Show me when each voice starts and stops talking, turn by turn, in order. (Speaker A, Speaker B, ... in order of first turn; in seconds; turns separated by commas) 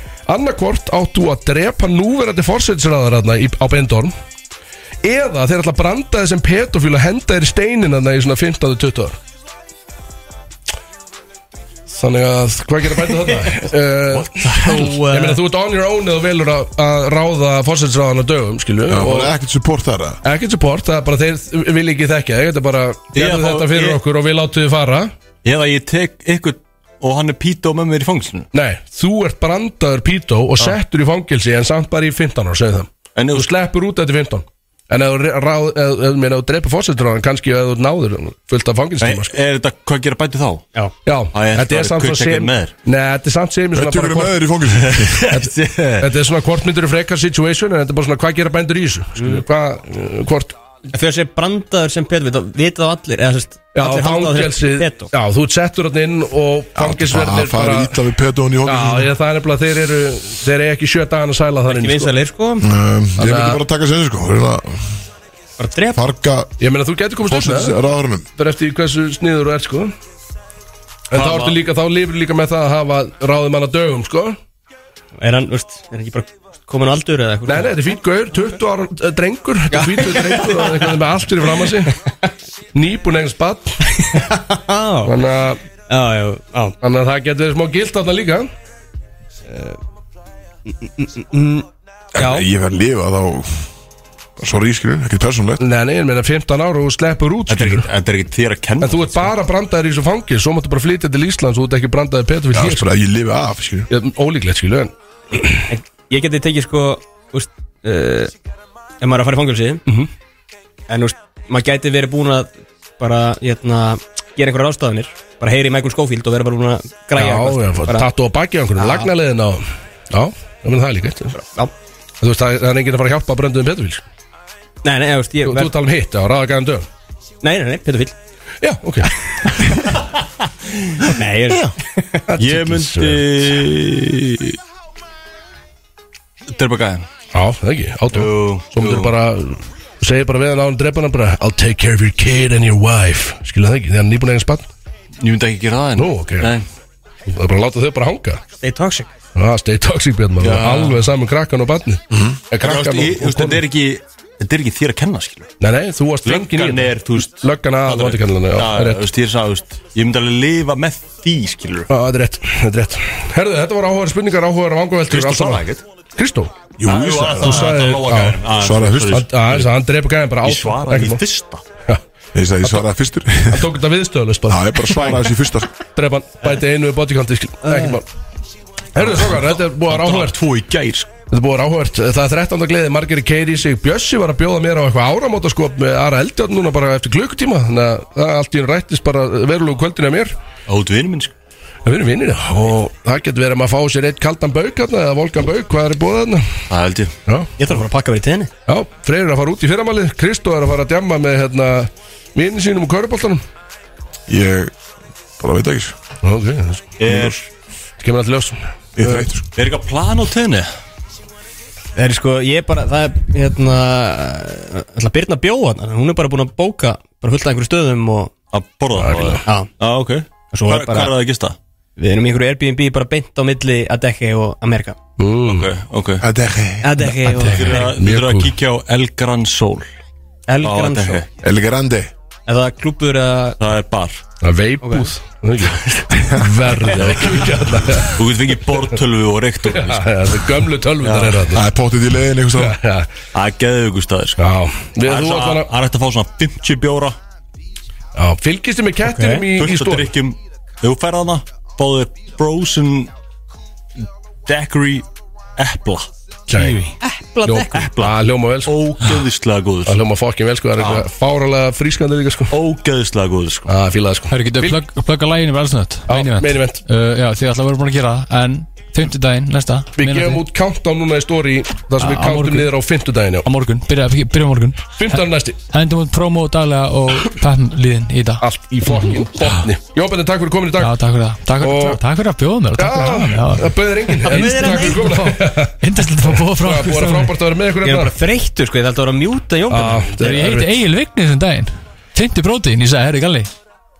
Speaker A: 0.3-4.1, Speaker A: 5.0-9.2, Speaker A: 11.9-19.3, Speaker B: 14.1-15.0, Speaker C: 14.5-15.4, Speaker D: 18.9-20.2, Speaker A: 20.2-25.1, Speaker B: 23.1-24.0, Speaker B: 25.4-28.5, Speaker A: 28.5-39.3, Speaker B: 33.1-33.5, Speaker B: 39.0-40.7, Speaker A: 41.0-44.4, Speaker B: 41.3-42.7, Speaker D: 43.7-45.3, Speaker B: 44.7-46.1, Speaker A: 45.3-50.5, Speaker C: 49.2-49.4, Speaker C: 50.9-55.1, Speaker A: 53.8-57.9, Speaker D: 56.8-59.1, Speaker A: 58.6-62.1, Speaker C: 61.7-62.7, Speaker D: 62.6-64.9, Speaker A: 63.2-63.6, Speaker C: 65.6-66.0, Speaker D: 65.9-66.5, Speaker A: 66.6-67.8, Speaker D: 67.2-68.3, Speaker A: 68.4-69.9, Speaker A: 71.1-74.4, Speaker B: 71.2-71.5, Speaker C: 75.2-77.8, Speaker A: 77.5-82.0, Speaker C: 79.7-80.9, Speaker A: 82.7-84.0, Speaker C: 84.0-85.2, Speaker A: 85.0-85.6, Speaker C: 85.9-86.8, Speaker A: 86.8-88.5, Speaker C: 90.8-92.5, Speaker D: 92.2-93.7, Speaker D: 94.4-95.6, Speaker A: 95.6-97.9, Speaker B: 97.5-99.3, Speaker A: 98.8-102.9, Speaker D: 102.5-103.9, Speaker A: 103.9-105.7, Speaker C: 105.7-108.3, Speaker C: 109.0-109.8, Speaker C: 110.9-118.1, Speaker A: 117.2-121.4, Speaker C: 118.8-119.1, Speaker C: 121.4-121.7, Speaker A: 122.2-124.0, Speaker C: 124.8-125.7, Speaker A: 125.5-126.9, Speaker C: 127.4-128.2, Speaker A: 128.6-129.9, Speaker C: 131.1-132.3, Speaker A: 132.3-133.3, Speaker B: 132.4-134.6, Speaker B: 136.5-137.1, Speaker A: 137.3-144.7, Speaker B: 138.1-139.1, Speaker B: 145.2-146.7, Speaker A: 146.0-146.6, Speaker A: 147.3-148.4, Speaker C: 148.6-149.1, Speaker A: 149.3-153.6, Speaker B: 150.4-151.1, Speaker B: 152.6-155.5, Speaker A: 155.6-159.0, Speaker B: 156.2-161.9, Speaker A: 161.9-165.7, Speaker B: 165.1-165.8, Speaker A: 166.2-166.5, Speaker D: 166.8-167.8, Speaker B: 166.8-169.7, Speaker A: 167.4-168.4, Speaker D: 168.5-169.3, Speaker A: 169.1-171.2, Speaker B: 170.4-171.6, Speaker D: 172.3-173.8, Speaker A: 173.5-175.3, Speaker D: 174.5-175.7, Speaker A: 175.9-178.1, Speaker C: 177.7-178.0, Speaker A: 178.9-180.4, Speaker B: 179.0-181.1, Speaker A: 181.3-190.3, Speaker B: 190.7-191.3, Speaker A: 191.8-196.6, Speaker B: 196.7-197.1, Speaker C: 197.6-198.5, Speaker A: 198.7-203.4, Speaker D: 204.3-204.8, Speaker D: 205.4-205.9, Speaker A: 206.2-207.3, Speaker B: 207.0-207.4, Speaker A: 208.0-209.4, Speaker D: 209.0-209.4, Speaker B: 209.6-210.7, Speaker C: 212.0-218.3, Speaker B: 218.5-221.6, Speaker A: 219.0-219.4, Speaker C: 219.5-219.7, Speaker C: 220.5-221.2, Speaker C: 222.0-225.0, Speaker A: 225.2-225.7, Speaker B: 225.4-226.3, Speaker D: 226.2-226.9, Speaker C: 226.8-227.9, Speaker E: 227.0-227.8, Speaker B: 227.4-229.9, Speaker A: 227.9-228.5, Speaker C: 230.5-231.2, Speaker B: 230.6-231.3, Speaker D: 231.4-232.1, Speaker C: 232.5-233.6, Speaker B: 233.6-234.2, Speaker A: 234.4-238.5, Speaker C: 234.8-235.1, Speaker D: 236.3-236.8, Speaker B: 238.2-240.1, Speaker A: 239.6-241.6, Speaker B: 241.0-241.5, Speaker D: 241.5-242.8, Speaker A: 242.6-243.1, Speaker B: 243.3-244.4, Speaker A: 244.4-245.7, Speaker B: 245.0-247.2, Speaker A: 248.2-250.1, Speaker C: 249.0-249.4, Speaker B: 249.5-253.1, Speaker B: 254.5-255.1, Speaker B: 255.6-256.1, Speaker E: 256.5-256.9, Speaker A: 256.5-256.8, Speaker C: 257.0-257.9, Speaker A: 257.5-258.8, Speaker B: 257.7-260.0, Speaker A: 259.9-262.5, Speaker B: 260.8-261.1, Speaker B: 262.5-263.7, Speaker A: 263.7-264.8, Speaker E: 264.3-270.4, Speaker A: 266.1-266.8, Speaker A: 270.0-273.5, Speaker E: 272.0-272.7, Speaker E: 273.4-275.2, Speaker A: 275.0-275.6, Speaker E: 275.7-279.6, Speaker A: 278.4-281.0, Speaker E: 280.8-287.4, Speaker A: 281.6-282.0, Speaker A: 282.8-288.1, Speaker C: 284.2-285.4, Speaker C: 287.8-290.3, Speaker A: 289.7-290.8, Speaker E: 290.2-293.5